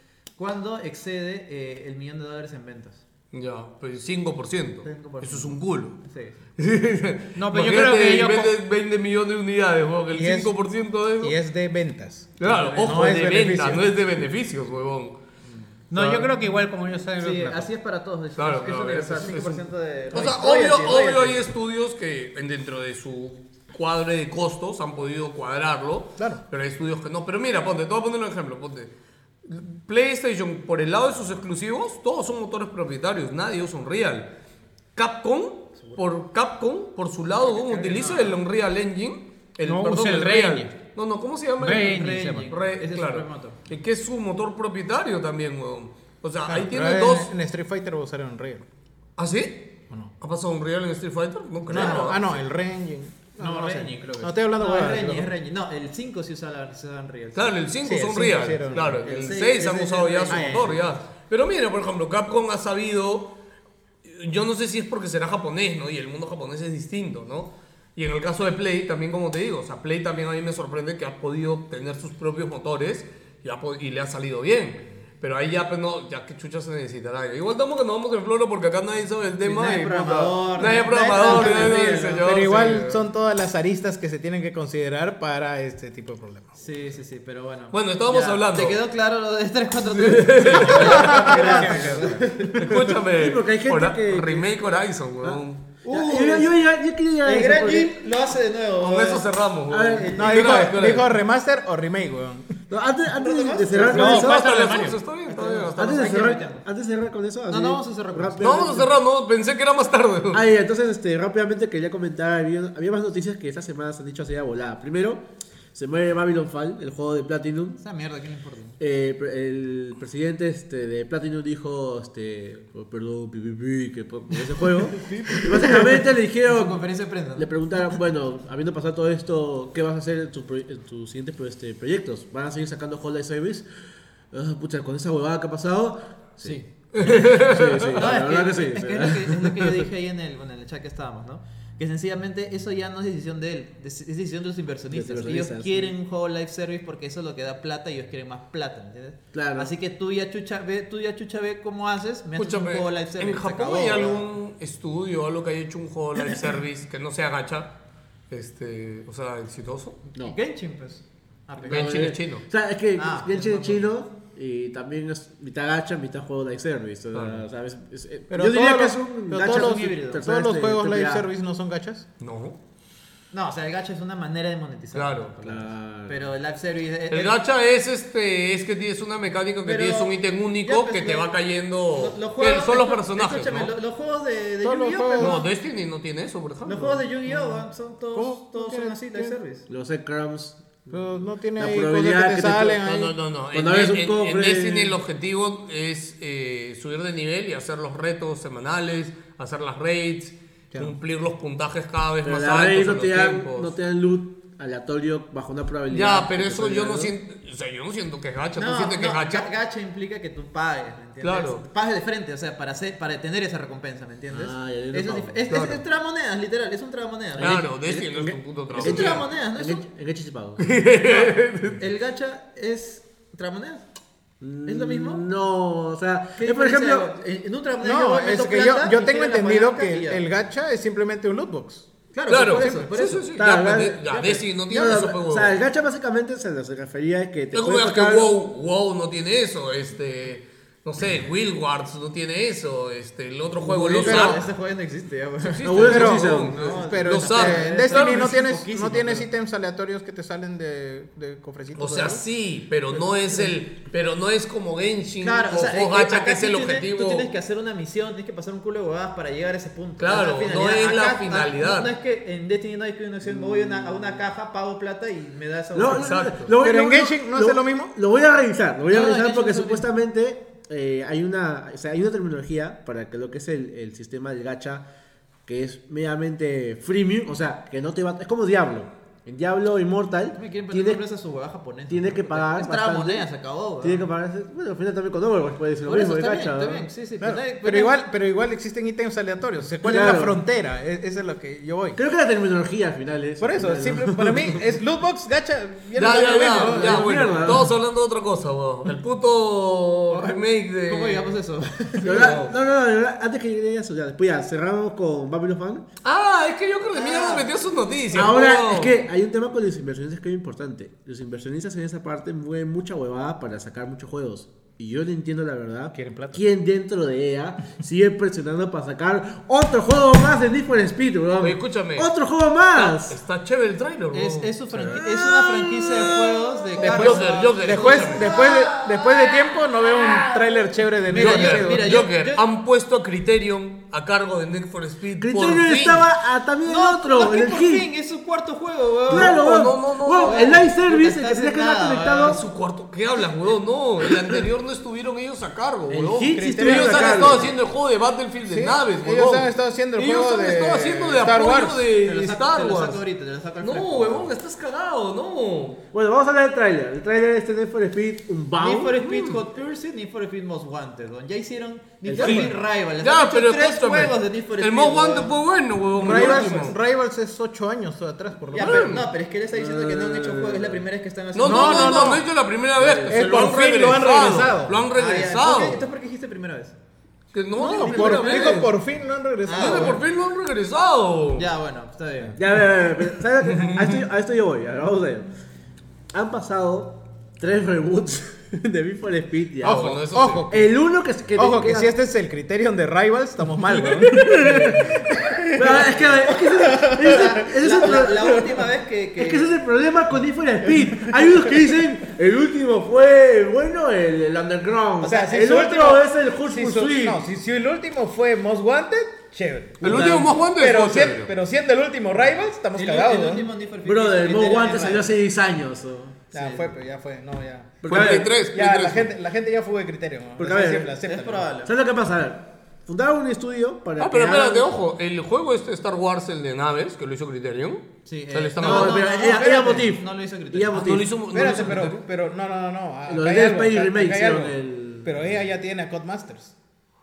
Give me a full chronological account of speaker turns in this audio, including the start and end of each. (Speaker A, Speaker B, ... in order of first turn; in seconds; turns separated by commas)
Speaker A: 0.3-3.0, Speaker B: 3.3-6.0, Speaker A: 4.8-6.3, Speaker B: 6.6-11.4, Speaker C: 7.3-8.5, Speaker D: 10.1-10.5, Speaker D: 11.2-13.8, Speaker B: 12.4-15.2, Speaker A: 12.4-13.1, Speaker A: 15.4-15.8, Speaker C: 15.9-17.7, Speaker A: 17.2-21.4, Speaker B: 18.4-28.9, Speaker B: 29.4-34.3, Speaker B: 34.9-47.3, Speaker A: 37.4-38.4, Speaker C: 39.6-40.7, Speaker C: 41.6-42.5, Speaker A: 41.9-43.6, Speaker D: 46.5-48.6, Speaker B: 49.2-52.2, Speaker D: 51.7-55.3, Speaker A: 51.7-52.4, Speaker A: 53.4-54.0, Speaker C: 53.4-54.3, Speaker A: 54.5-57.5, Speaker B: 57.3-63.3, Speaker D: 57.8-59.0, Speaker A: 58.7-60.9, Speaker D: 60.3-60.7, Speaker B: 64.0-83.0, Speaker A: 79.4-82.2, Speaker D: 81.3-86.6, Speaker E: 81.7-82.0, Speaker A: 86.6-92.5, Speaker B: 87.7-88.8, Speaker B: 89.9-91.5, Speaker D: 90.8-93.0, Speaker C: 91.4-92.2, Speaker B: 92.5-95.8, Speaker E: 93.2-94.5, Speaker E: 95.2-98.0, Speaker A: 95.8-96.5, Speaker A: 97.2-99.3, Speaker B: 98.8-101.1, Speaker E: 99.7-100.2, Speaker A: 99.9-100.7, Speaker D: 100.2-102.6, Speaker E: 102.7-104.6, Speaker A: 103.1-104.3, Speaker C: 103.9-105.0, Speaker B: 103.9-106.1, Speaker A: 105.2-106.7, Speaker E: 105.8-108.9, Speaker A: 107.5-108.7, Speaker B: 108.4-110.5, Speaker E: 110.3-115.2, Speaker E: 115.7-117.8, Speaker A: 117.8-118.8, Speaker E: 118.8-126.8, Speaker A: 125.1-128.0, Speaker E: 127.3-133.7, Speaker E: 134.3-139.8, Speaker A: 136.4-137.1, Speaker B: 136.9-138.0, Speaker A: 137.9-154.2, Speaker E: 144.9-145.9, Speaker E: 149.3-149.7, Speaker B: 152.3-157.7, Speaker B: 158.3-160.0, Speaker A: 160.2-162.1, Speaker B: 161.7-162.4, Speaker E: 161.7-171.2, Speaker A: 162.9-163.9, Speaker B: 167.1-167.4, Speaker D: 168.3-172.0, Speaker A: 169.4-170.2, Speaker B: 172.2-172.6, Speaker A: 173.3-177.4, Speaker B: 174.9-175.3, Speaker E: 175.4-176.3, Speaker B: 177.1-183.7, Speaker A: 179.6-181.3, Speaker A: 181.9-185.5, Speaker D: 184.6-185.4, Speaker B: 185.2-187.0, Speaker A: 186.6-189.7, Speaker D: 187.3-189.4, Speaker E: 189.7-192.8, Speaker D: 190.9-193.2, Speaker B: 192.8-203.7, Speaker E: 193.5-195.0, Speaker E: 202.2-207.1, Speaker B: 205.9-209.5, Speaker A: 208.6-218.2, Speaker B: 211.2-211.6, Speaker E: 214.3-215.4, Speaker B: 215.5-215.8, Speaker E: 217.4-220.7, Speaker B: 217.4-219.2, Speaker A: 218.8-219.8, Speaker B: 220.6-221.8, Speaker A: 221.0-223.8, Speaker E: 224.4-227.1, Speaker A: 224.7-225.2, Speaker A: 226.4-230.2, Speaker D: 227.8-231.9, Speaker A: 232.1-233.3, Speaker B: 232.3-235.6, Speaker E: 233.3-238.3, Speaker B: 237.5-244.4, Speaker A: 243.6-249.2, Speaker D: 244.0-244.4, Speaker B: 245.4-248.4, Speaker E: 245.6-246.6, Speaker D: 245.9-252.2, Speaker B: 251.8-257.3, Speaker A: 255.2-266.3, Speaker B: 260.0-261.9, Speaker E: 263.2-264.2, Speaker E: 265.7-274.8, Speaker B: 265.9-266.5, Speaker D: 266.6-267.9, Speaker A: 268.9-269.9, Speaker E: 275.4-281.0, Speaker A: 280.3-284.1, Speaker E: 281.9-283.2, Speaker E: 283.8-286.9, Speaker A: 285.8-287.9, Speaker D: 287.2-292.0, Speaker E: 289.8-290.4, Speaker E: 291.9-294.6, Speaker D: 293.4-297.4, Speaker B: 295.9-301.3, Speaker E: 296.6-297.7, Speaker A: 300.1-302.4, Speaker B: 302.0-302.5, Speaker E: 302.0-305.8, Speaker B: 306.0-308.9, Speaker A: 306.9-307.5, Speaker A: 308.1-308.4, Speaker E: 308.1-323.2, Speaker D: 315.9-316.4, Speaker B: 321.4-322.1, Speaker B: 322.7-325.0, Speaker A: 324.1-332.4, Speaker E: 324.9-326.6, Speaker B: 326.8-328.3, Speaker D: 326.8-331.9, Speaker B: 331.1-336.1, Speaker E: 335.2-337.9, Speaker A: 336.6-339.5, Speaker E: 339.1-342.4, Speaker B: 339.1-340.6, Speaker A: 340.2-342.4, Speaker B: 342.2-353.0, Speaker E: 345.9-347.5, Speaker D: 346.3-347.5, Speaker D: 348.4-351.9, Speaker A: 352.0-354.3, Speaker B: 353.6-355.8, Speaker E: 355.9-359.0, Speaker A: 358.6-365.3, Speaker B: 359.0-359.4, Speaker E: 362.0-362.5, Speaker D: 362.2-362.5, Speaker B: 363.0-366.8, Speaker A: 366.0-366.7, Speaker D: 366.0-369.0, Speaker A: 368.5-372.2, Speaker B: 368.5-369.1, Speaker E: 369.5-370.8, Speaker B: 371.3-375.9, Speaker D: 371.4-372.2, Speaker E: 372.8-373.3, Speaker D: 373.1-374.8, Speaker A: 374.9-376.8, Speaker B: 377.3-378.7, Speaker D: 377.6-380.0, Speaker A: 377.6-378.7, Speaker A: 379.4-380.0, Speaker B: 379.6-381.5, Speaker A: 381.4-382.4, Speaker E: 382.4-385.3, Speaker B: 383.4-384.0, Speaker E: 386.1-391.9, Speaker D: 389.6-390.8, Speaker B: 389.6-390.4, Speaker D: 391.3-398.4, Speaker E: 393.8-394.9, Speaker E: 395.5-398.5, Speaker A: 396.2-399.6, Speaker E: 399.2-407.2, Speaker D: 400.7-401.6, Speaker D: 405.0-413.5, Speaker B: 409.8-411.3, Speaker E: 409.8-410.3, Speaker A: 412.8-415.1, Speaker E: 413.8-416.2, Speaker A: 416.3-416.7, Speaker D: 416.3-421.5, Speaker E: 417.8-418.4, Speaker B: 417.9-419.1, Speaker E: 420.4-420.9, Speaker A: 421.0-421.7, Speaker E: 421.6-424.7, Speaker B: 424.0-429.1, Speaker A: 428.1-430.9, Speaker E: 428.6-431.2, Speaker B: 430.7-432.0, Speaker D: 431.3-436.5, Speaker E: 433.1-435.3